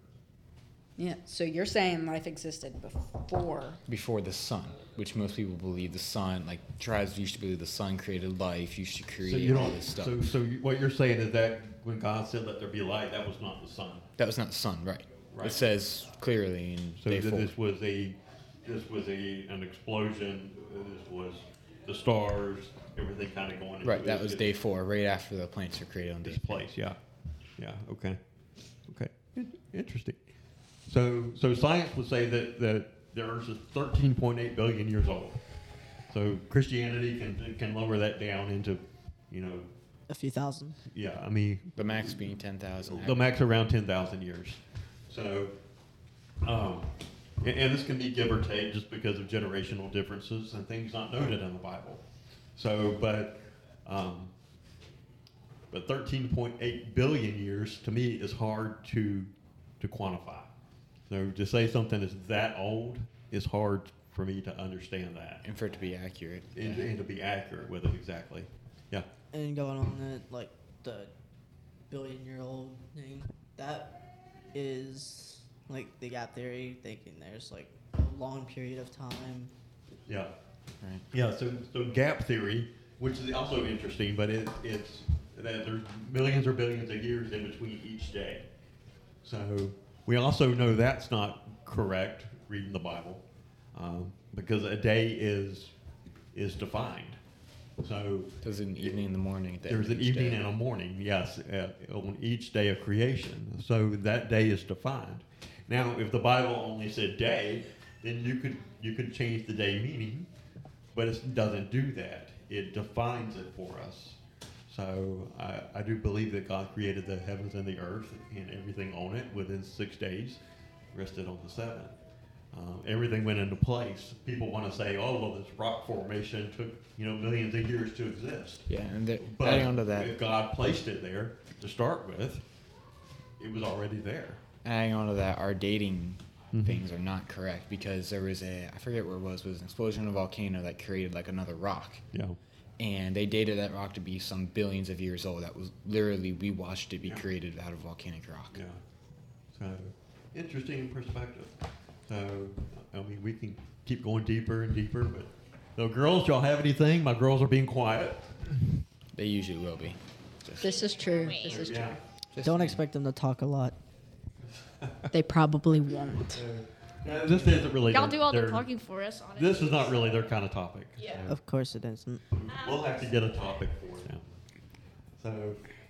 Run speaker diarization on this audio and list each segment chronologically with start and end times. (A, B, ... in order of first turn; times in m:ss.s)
0:01.0-0:03.8 A
0:03.9-0:10.3 B
0:09.2-0:14.1 C
0:14.2-0:17.6 B
0:15.3-0:15.6 C
0:17.0-0:24.5 C
0:23.8-0:26.7 B
0:26.2-0:27.0 C
0:27.6-0:28.2 C
0:28.9-0:30.2 C
0:30.9-0:35.4 C
0:36.1-0:39.7 C
0:40.1-0:40.8 D
0:40.9-0:42.2 C
0:41.8-0:43.2 B
0:42.9-0:45.5 C
0:46.4-0:46.9 C
0:47.4-0:52.0 C
0:52.6-0:54.3 C
0:55.7-1:00.5 C
1:01.1-1:05.4 C
1:05.4-1:06.9 B
1:06.5-1:09.1 C
1:09.3-1:11.1 D
1:11.9-1:14.0 D
1:14.5-1:19.5 D
1:20.8-1:21.1 B
1:21.1-1:28.4 C
1:29.2-1:33.2 C
1:33.7-1:35.7 C
1:36.3-1:37.2 C
1:37.8-1:39.0 C
1:38.4-1:40.5 B
1:39.7-1:50.3 C
1:50.9-1:54.2 C
1:54.7-2:00.4 C
2:00.9-2:01.9 C
2:02.5-2:08.7 C
2:08.7-2:10.2 B
2:09.2-2:12.4 C
2:13.4-2:14.4 C
2:14.6-2:22.0 B
2:16.5-2:16.8 C
2:22.8-2:28.6 B
2:28.5-2:28.8 C
2:29.5-2:31.5 C
2:32.1-2:38.3 C
2:39.1-2:40.8 B
2:40.6-2:42.0 A
2:40.8-2:41.7 E
2:41.5-2:42.0 C
2:42.3-2:42.8 B
2:42.4-2:43.8 D
2:44.8-2:45.1 C
2:45.1-2:46.4 A
2:46.3-2:48.6 C
2:47.3-2:47.7 B
2:47.9-2:50.3 E
2:49.4-2:51.4 C
2:51.0-2:51.3 E
2:51.3-2:52.2 D
2:52.3-2:54.2 C
2:52.5-2:53.0 E
2:55.2-2:55.6 C